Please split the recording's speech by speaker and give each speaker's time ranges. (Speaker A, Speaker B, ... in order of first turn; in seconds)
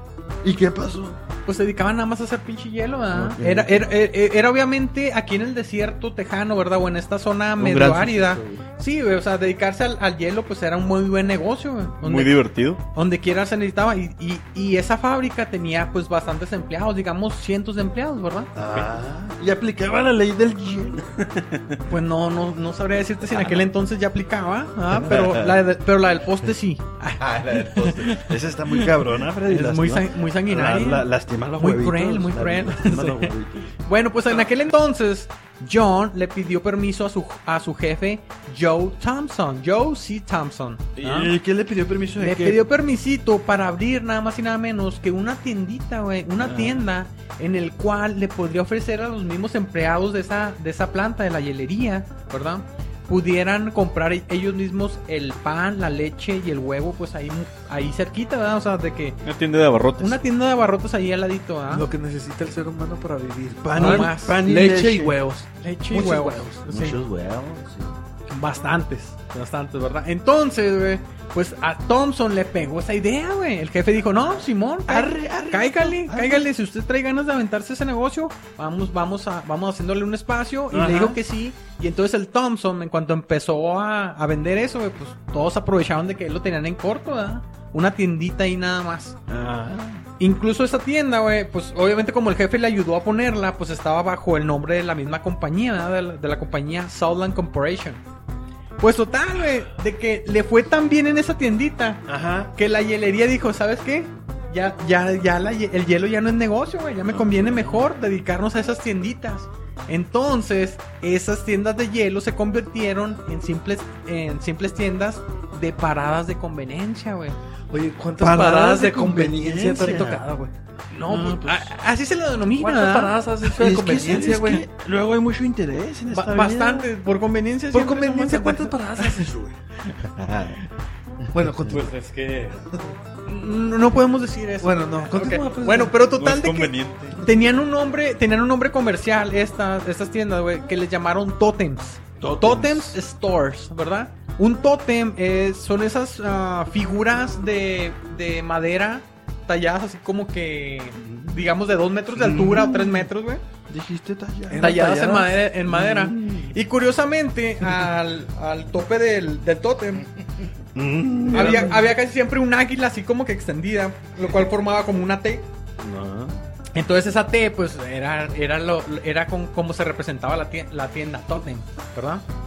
Speaker A: 0.4-1.2, 3.1-3.8, 18.6-21.1, 25.0-25.4, 28.2-33.7, 41.0-42.6, 46.4-46.8, 63.6-65.2, 74.9-76.5, 80.7-81.2, 89.3-90.0, 102.1-102.5, 107.1-107.8, 118.2-120.2, 121.1-121.7, 123.5-126.9, 142.2-143.0, 150.9-151.5, 152.1-153.1, 153.7-155.0, 155.7-156.5, 160.8-161.8, 165.8-166.3
Speaker B: 1.5-18.5, 21.9-41.3, 42.2-59.2, 60.0-61.9, 63.7-64.4, 65.6-67.0, 68.3-89.2, 90.2-98.0, 98.8-117.4, 121.0-123.2, 126.1-129.3, 133.3-153.4, 154.6-160.1, 161.3-165.5, 166.7-172.2
Speaker C: 7.6-8.7, 27.2-28.2, 66.7-68.0, 130.0-130.6
Speaker D: 12.0-12.8, 21.4-21.8, 59.2-60.2, 131.7-132.7, 136.2-137.2
Speaker E: 61.7-66.6, 117.7-121.3, 122.6-124.7, 127.7-129.5, 131.3-131.9, 134.6-135.9, 154.5-155.3